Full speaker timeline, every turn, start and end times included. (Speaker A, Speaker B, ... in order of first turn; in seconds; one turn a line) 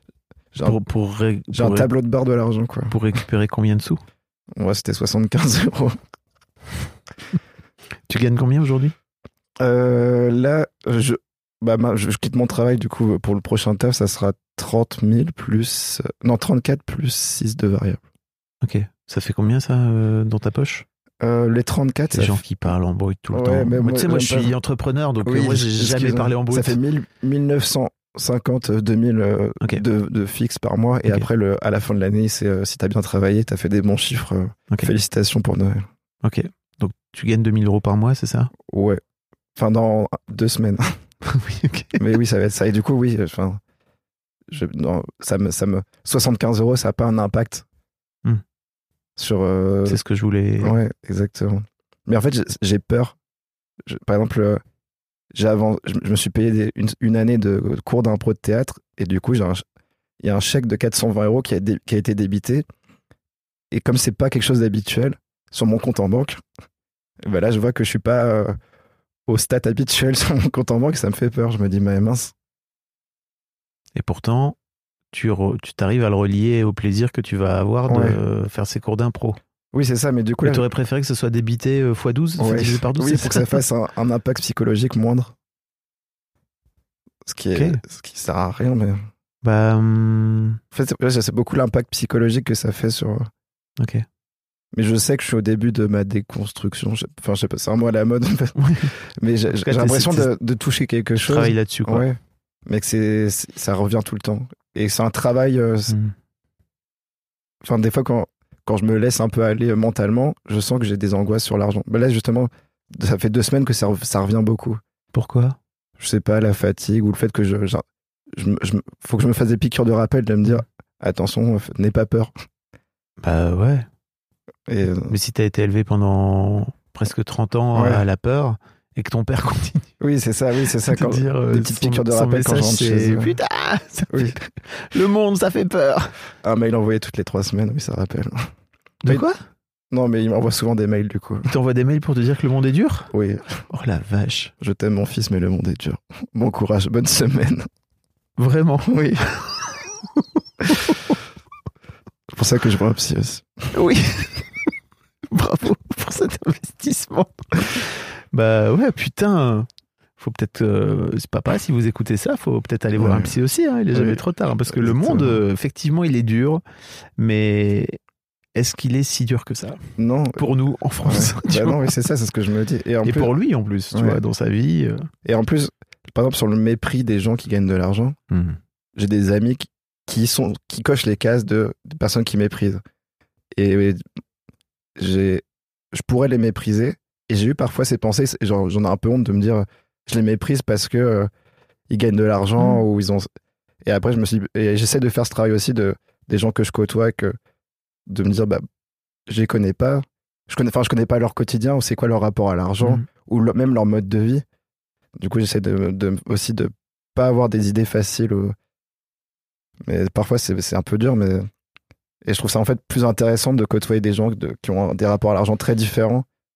Speaker A: 0.6-1.9
Speaker B: 1.5-2.9
Speaker A: 2.9-4.0
Speaker B: 4.5-6.0
Speaker A: 8.1-8.9
Speaker B: 9.6-18.0
Speaker A: 18.6-20.8
Speaker B: 21.2-22.4
Speaker A: 22.1-26.8
Speaker B: 23.3-24.5
Speaker B: 25.2-35.9
Speaker A: 36.2-38.5
Speaker B: 38.7-39.0
Speaker B: 39.5-41.0
Speaker A: 41.2-42.0
Speaker B: 42.0-43.6
Speaker B: 44.5-47.6
Speaker B: 49.2-50.0
Speaker A: 49.9-50.8
Speaker B: 50.6-53.1
Speaker B: 53.9-54.6
Speaker B: 55.3-59.6
Speaker B: 60.2-62.6
Speaker B: 63.7-66.4
Speaker B: 67.2-68.5
Speaker B: 69.3-72.3
Speaker A: 74.0-74.5
Speaker A: 75.1-79.4
Speaker B: 77.9-78.2
Speaker B: 79.7-80.6
Speaker A: 80.4-83.6
Speaker B: 82.4-85.3
Speaker B: 87.2-89.0
Speaker A: 87.5-87.8
Speaker A: 89.4-90.6
Speaker B: 90.7-93.3
Speaker A: 93.8-94.0
Speaker B: 94.7-98.5
Speaker A: 98.6-98.9
Speaker B: 99.2-105.9
Speaker A: 99.5-100.3
Speaker A: 101.1-102.0
Speaker B: 107.6-114.8
Speaker A: 115.1-115.6
Speaker B: 116.0-117.8
Speaker B: 118.3-122.3
Speaker A: 123.2-123.9
Speaker B: 124.7-125.1
Speaker A: 125.1-129.9
Speaker B: 127.7-128.0
Speaker B: 130.0-133.4
Speaker A: 130.8-136.1
Speaker B: 134.1-134.4
Speaker B: 136.4-138.5
Speaker A: 139.0-139.4
Speaker B: 139.9-141.5
Speaker A: 141.4-143.1
Speaker B: 143.1-143.6
Speaker A: 143.7-144.5
Speaker B: 144.6-147.7
Speaker A: 148.4-149.9
Speaker B: 148.9-149.2
Speaker A: 150.6-151.2
Speaker B: 152.3-153.7
Speaker A: 153.7-154.5
Speaker A: 155.3-159.7
Speaker A: 160.2-166.6
Speaker B: 163.0-163.3
Speaker B: 163.9-165.4
Speaker A: 167.2-168.0
Speaker A: 168.6-169.8
Speaker B: 170.0-170.5
Speaker A: 170.3-171.9
Speaker B: 171.0-173.3
Speaker A: 173.0-175.1
Speaker B: 173.9-174.2
Speaker B: 175.2-178.2
Speaker A: 178.3-178.6
Speaker B: 178.9-182.8
Speaker B: 183.5-184.0
Speaker B: 185.0-191.3
Speaker B: 191.9-193.3
Speaker A: 192.6-192.8
Speaker B: 193.8-197.3
Speaker B: 198.1-198.6
Speaker B: 199.3-204.4
Speaker B: 205.2-208.5
Speaker B: 209.8-211.5
Speaker B: 212.2-216.2